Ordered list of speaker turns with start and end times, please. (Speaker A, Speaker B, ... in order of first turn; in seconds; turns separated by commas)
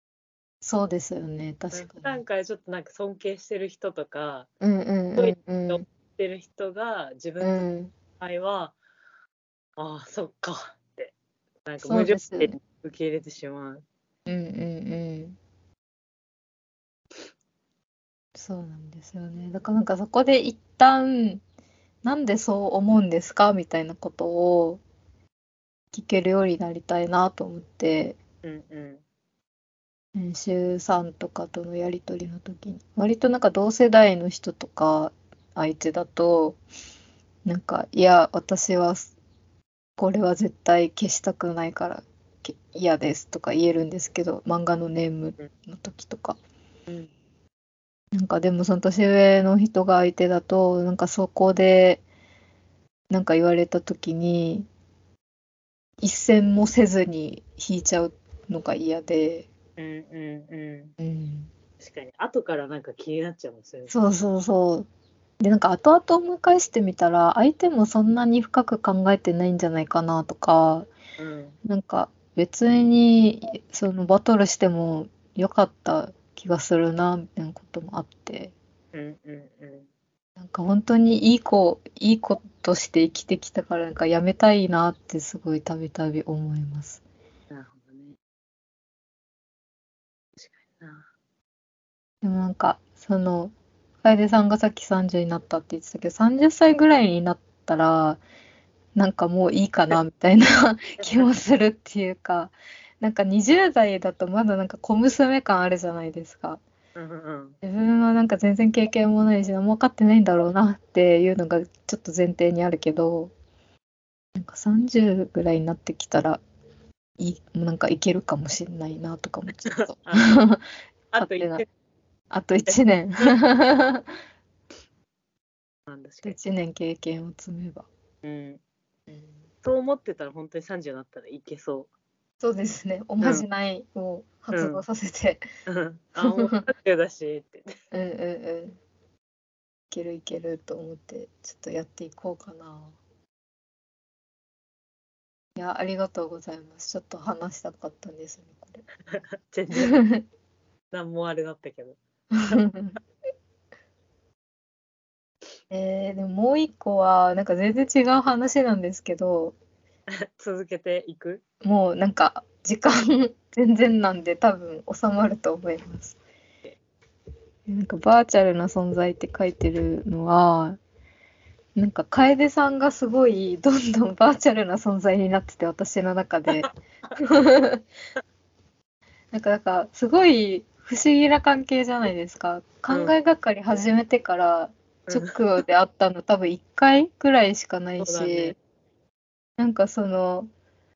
Speaker A: 0.6-2.2, Speaker B: 1.7-4.5, Speaker A: 4.6-5.8, Speaker B: 5.2-8.7, Speaker A: 7.4-7.9, Speaker B: 9.8-11.1, Speaker B: 11.7-13.8, Speaker A: 11.8-12.5, Speaker A: 14.2-15.4, Speaker A: 18.4-21.4, Speaker A: 22.0-24.8, Speaker A: 25.9-28.2, Speaker B: 28.4-29.0, Speaker A: 30.1-36.6, Speaker A: 37.4-39.1, Speaker A: 40.0-46.4, Speaker A: 48.1-52.0, Speaker A: 53.1-54.7, Speaker A: 56.0-59.5, Speaker B: 59.8-60.9, Speaker A: 61.0-61.5, Speaker B: 61.8-64.0, Speaker A: 63.9-64.9, Speaker A: 65.4-70.9, Speaker B: 71.2-71.5, Speaker A: 71.6-78.5, Speaker B: 78.9-79.9, Speaker A: 80.4-87.0, Speaker B: 87.5-88.2, Speaker B: 90.4-91.1, Speaker A: 92.2-98.2, Speaker A: 98.9-106.6, Speaker B: 101.0-101.3, Speaker B: 107.0-107.6, Speaker A: 107.6-113.3, Speaker A: 114.3-116.4, Speaker A: 117.2-120.6, Speaker B: 119.6-120.4, Speaker B: 121.1-121.7, Speaker A: 121.2-121.6, Speaker A: 122.3-124.0, Speaker B: 122.6-123.3, Speaker B: 125.9-126.4, Speaker A: 126.2-127.9, Speaker B: 128.2-128.6, Speaker B: 129.6-131.9, Speaker A: 132.4-135.4, Speaker B: 133.2-133.4, Speaker B: 134.5-134.8, Speaker B: 135.7-137.7, Speaker A: 136.2-136.6, Speaker A: 137.9-138.8, Speaker A: 139.9-142.9, Speaker A: 145.6-148.8, Speaker B: 149.1-150.0, Speaker A: 149.8-150.2, Speaker B: 150.9-152.6, Speaker A: 152.3-153.0, Speaker A: 155.7-159.6, Speaker B: 160.2-161.4, Speaker A: 161.6-166.2, Speaker A: 167.7-170.8, Speaker A: 171.8-177.8, Speaker B: 176.5-177.2, Speaker A: 179.3-188.5, Speaker B: 182.9-183.1, Speaker B: 185.1-185.3, Speaker B: 188.0-188.6, Speaker A: 189.6-190.5